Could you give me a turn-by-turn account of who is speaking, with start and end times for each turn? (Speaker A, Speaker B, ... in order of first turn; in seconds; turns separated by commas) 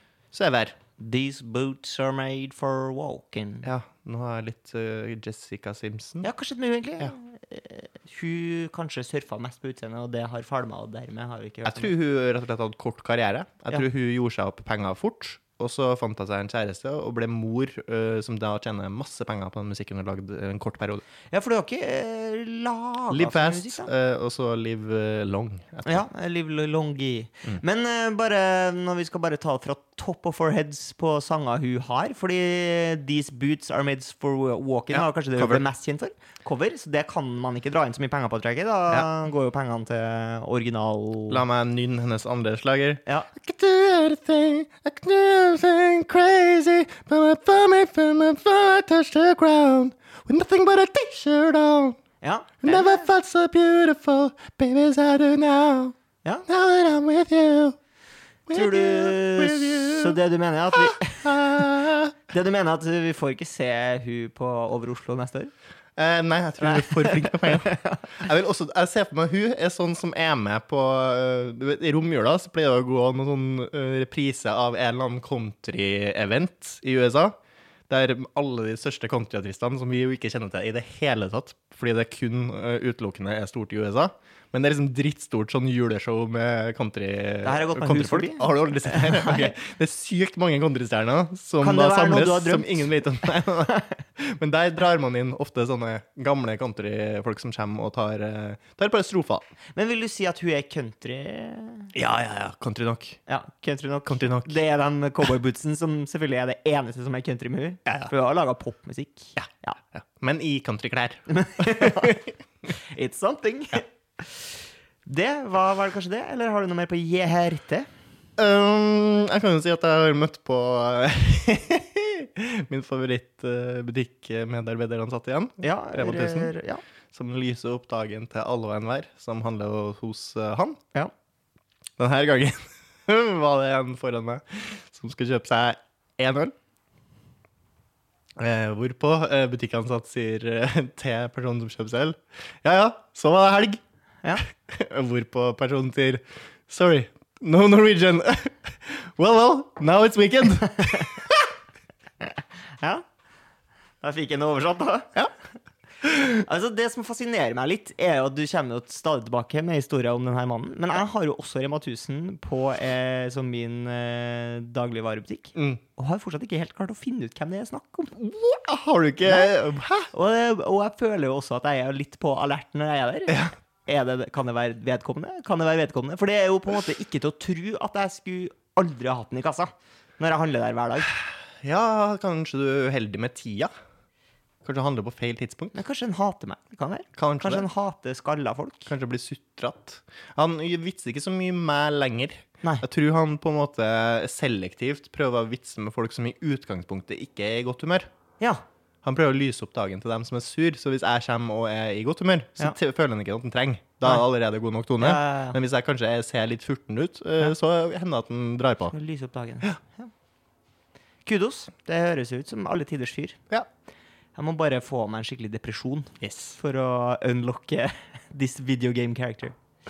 Speaker A: 0.3-0.8, Speaker B: 1.0-3.7, Speaker A: 3.6-6.3, Speaker B: 6.2-11.9, Speaker A: 11.7-21.1, Speaker B: 21.3-23.9, Speaker A: 23.1-26.1, Speaker B: 25.9-41.4, Speaker A: 34.9-35.6, Speaker A: 41.3-52.0, Speaker B: 52.2-53.1, Speaker A: 52.6-56.0, Speaker A: 56.5-57.8, Speaker A: 58.5-60.2, Speaker B: 58.5-61.8, Speaker A: 60.8-62.2, Speaker B: 62.3-65.5, Speaker A: 66.0-77.3, Speaker B: 66.6-68.1, Speaker A: 77.9-99.5, Speaker B: 87.4-89.5, Speaker B: 91.6-92.9, Speaker B: 99.7-101.9, Speaker A: 101.9-103.2, Speaker B: 103.3-109.8, Speaker A: 104.1-104.5, Speaker A: 109.4-112.3, Speaker B: 111.3-114.5, Speaker B: 115.0-117.9, Speaker A: 118.4-126.5, Speaker B: 125.6-126.8, Speaker A: 127.1-130.8, Speaker A: 132.0-136.6, Speaker A: 138.4-143.8, Speaker A: 144.4-151.3, Speaker B: 152.2-153.1, Speaker B: 154.0-155.2, Speaker B: 156.0-168.1, Speaker A: 165.6-165.8, Speaker A: 168.2-170.1, Speaker B: 169.2-169.5, Speaker B: 170.1-181.1, Speaker A: 181.1-183.7, Speaker A: 184.6-185.8, Speaker B: 185.7-188.9, Speaker A: 187.2-187.7, Speaker A: 188.9-198.1, Speaker A: 199.0-208.9, Speaker B: 205.0-205.6, Speaker B: 208.9-210.1, Speaker B: 211.2-213.4, Speaker B: 214.4-219.5, Speaker A: 216.2-216.6